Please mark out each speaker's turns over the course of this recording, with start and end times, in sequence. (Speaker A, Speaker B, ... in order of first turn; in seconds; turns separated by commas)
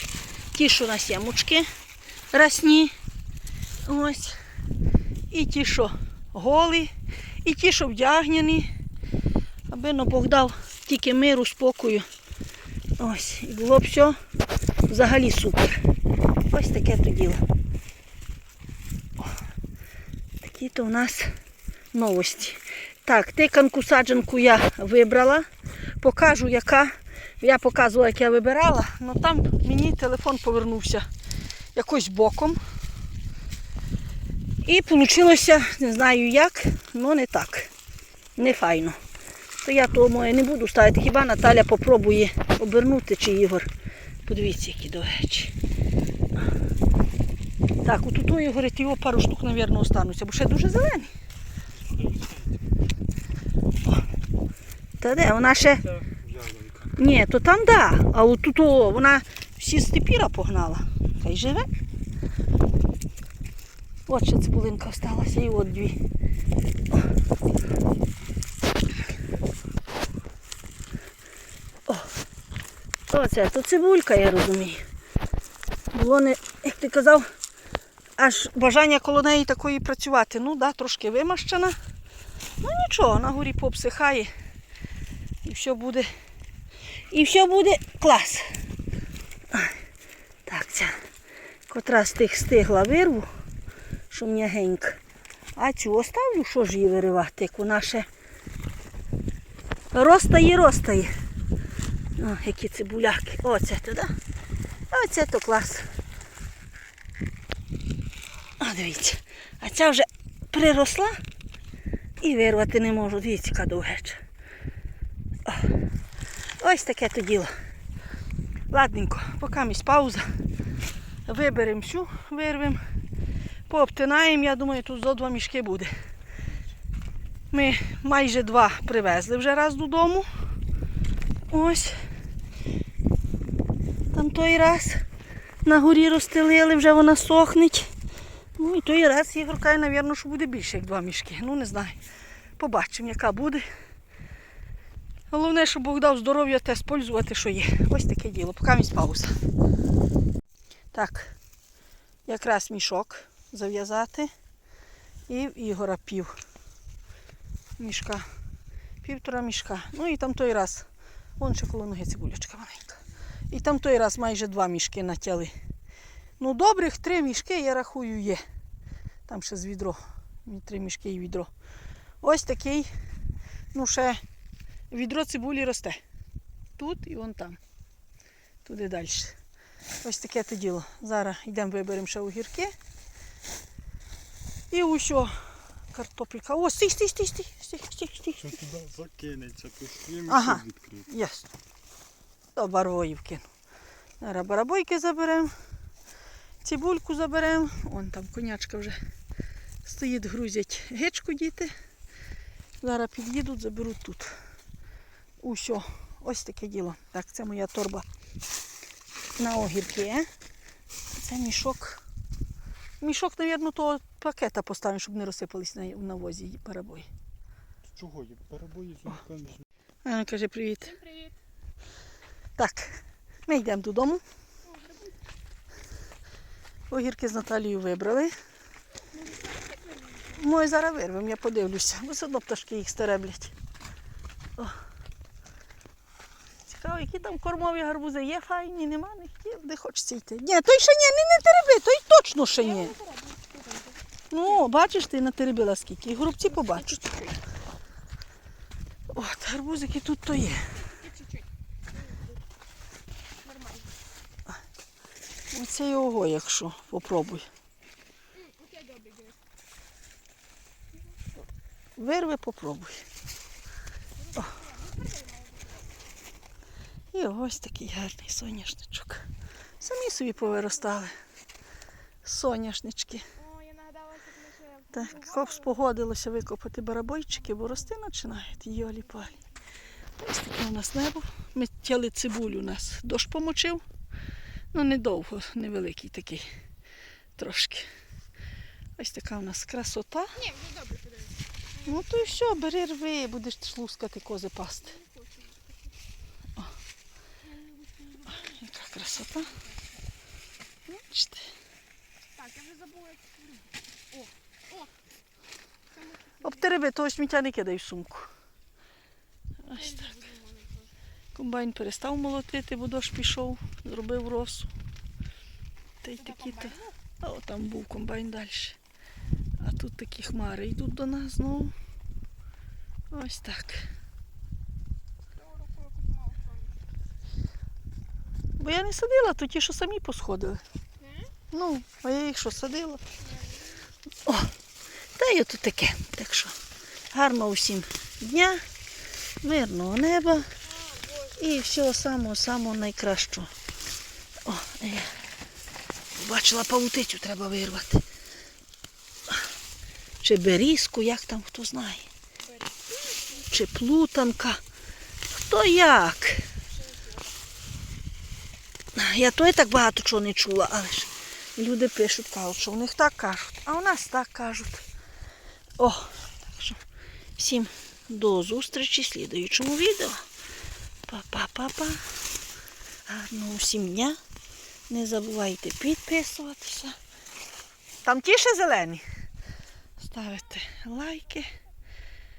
Speaker A: 0.5-1.7, Speaker A: 2.3-2.9, Speaker A: 3.8-4.4, Speaker A: 5.3-6.9, Speaker A: 7.4-8.7, Speaker A: 9.7-12.1, Speaker A: 13.0-14.2, Speaker A: 14.9-15.8, Speaker A: 16.5-17.4, Speaker A: 20.4-21.3, Speaker A: 21.9-25.5, Speaker A: 26.0-31.1, Speaker A: 31.8-32.6, Speaker A: 34.6-37.7, Speaker A: 38.4-39.0, Speaker A: 39.6-43.7, Speaker A: 44.2-45.5, Speaker A: 47.8-51.1, Speaker B: 51.9-52.5, Speaker A: 55.0-56.0, Speaker B: 56.1-56.9, Speaker A: 57.0-61.7, Speaker A: 64.1-66.0, Speaker A: 73.1-74.8, Speaker A: 75.9-77.3, Speaker A: 78.2-81.8, Speaker A: 82.6-84.3, Speaker A: 85.4-86.1, Speaker A: 87.1-88.5, Speaker A: 89.5-89.8, Speaker A: 90.5-91.0, Speaker A: 91.7-93.3, Speaker A: 94.1-95.0, Speaker A: 95.6-98.1, Speaker A: 99.9-101.1, Speaker A: 102.2-104.1, Speaker A: 104.9-105.9, Speaker A: 108.6-111.2, Speaker A: 112.2-114.2, Speaker A: 116.6-117.5, Speaker A: 118.7-120.3, Speaker A: 121.3-122.8, Speaker A: 123.7-125.9, Speaker A: 127.5-130.3, Speaker A: 131.5-131.9, Speaker A: 134.1-135.0, Speaker A: 135.7-137.9, Speaker A: 138.6-142.0, Speaker A: 142.6-143.7, Speaker A: 145.3-149.4, Speaker A: 150.9-151.4, Speaker A: 152.3-154.3, Speaker A: 155.3-156.3, Speaker A: 157.8-158.3, Speaker A: 159.0-160.9, Speaker A: 161.4-165.6, Speaker A: 166.4-168.4, Speaker A: 169.3-171.5, Speaker A: 172.2-172.9, Speaker A: 173.7-174.2, Speaker A: 174.9-176.0, Speaker A: 176.8-177.6, Speaker A: 178.7-179.4, Speaker A: 180.0-182.8, Speaker A: 184.7-185.3, Speaker A: 185.9-188.5, Speaker B: 188.5-191.0, Speaker A: 190.3-191.5, Speaker A: 192.6-193.4, Speaker A: 194.2-195.5, Speaker A: 196.6-199.0, Speaker A: 199.8-201.7, Speaker A: 202.8-204.3, Speaker A: 205.4-208.1, Speaker A: 209.4-210.3, Speaker A: 211.2-212.0, Speaker A: 213.0-217.1, Speaker B: 217.9-219.6, Speaker A: 220.1-221.0, Speaker C: 220.9-221.3, Speaker A: 222.6-224.2, Speaker C: 224.7-225.2, Speaker A: 226.9-228.3, Speaker C: 229.1-230.4, Speaker A: 230.3-233.5, Speaker A: 236.7-242.9, Speaker C: 242.6-244.0, Speaker A: 244.3-246.9, Speaker C: 246.5-247.4, Speaker A: 249.1-250.7, Speaker C: 250.7-252.4, Speaker C: 253.4-253.9, Speaker A: 255.5-257.5, Speaker C: 258.3-259.4, Speaker A: 262.0-263.1, Speaker C: 264.2-265.9, Speaker A: 267.1-269.3, Speaker A: 269.8-271.1, Speaker A: 272.2-273.2, Speaker C: 273.4-275.7, Speaker A: 274.9-279.3, Speaker A: 280.2-283.8, Speaker A: 284.7-286.5, Speaker A: 287.4-287.9, Speaker A: 289.0-290.4, Speaker C: 290.4-292.4, Speaker A: 291.9-295.0, Speaker C: 294.9-296.0, Speaker C: 297.4-298.5, Speaker A: 298.3-299.5, Speaker C: 299.4-300.0, Speaker A: 300.9-301.5, Speaker C: 302.3-304.9, Speaker C: 305.9-306.6, Speaker A: 306.4-308.3, Speaker A: 309.6-310.1, Speaker C: 309.7-310.9, Speaker A: 311.4-314.7, Speaker A: 316.0-318.8, Speaker C: 316.2-316.9, Speaker A: 319.6-321.7, Speaker A: 323.1-323.9, Speaker C: 325.4-326.8, Speaker A: 328.6-330.6, Speaker C: 331.0-331.3, Speaker A: 331.5-333.0, Speaker C: 333.2-333.9, Speaker A: 334.2-334.5, Speaker A: 335.1-336.6, Speaker A: 337.1-338.6, Speaker A: 339.4-340.5, Speaker C: 340.8-341.4, Speaker A: 341.4-343.5, Speaker A: 344.4-345.2, Speaker A: 346.1-348.0, Speaker A: 350.2-352.1, Speaker C: 352.5-353.4, Speaker A: 353.4-354.6, Speaker A: 355.3-356.5, Speaker C: 356.7-357.4, Speaker A: 358.9-364.8, Speaker A: 365.8-366.8, Speaker A: 367.4-370.2, Speaker A: 371.1-372.1, Speaker A: 373.1-374.2, Speaker A: 374.9-377.0, Speaker A: 378.1-379.0, Speaker A: 380.0-381.5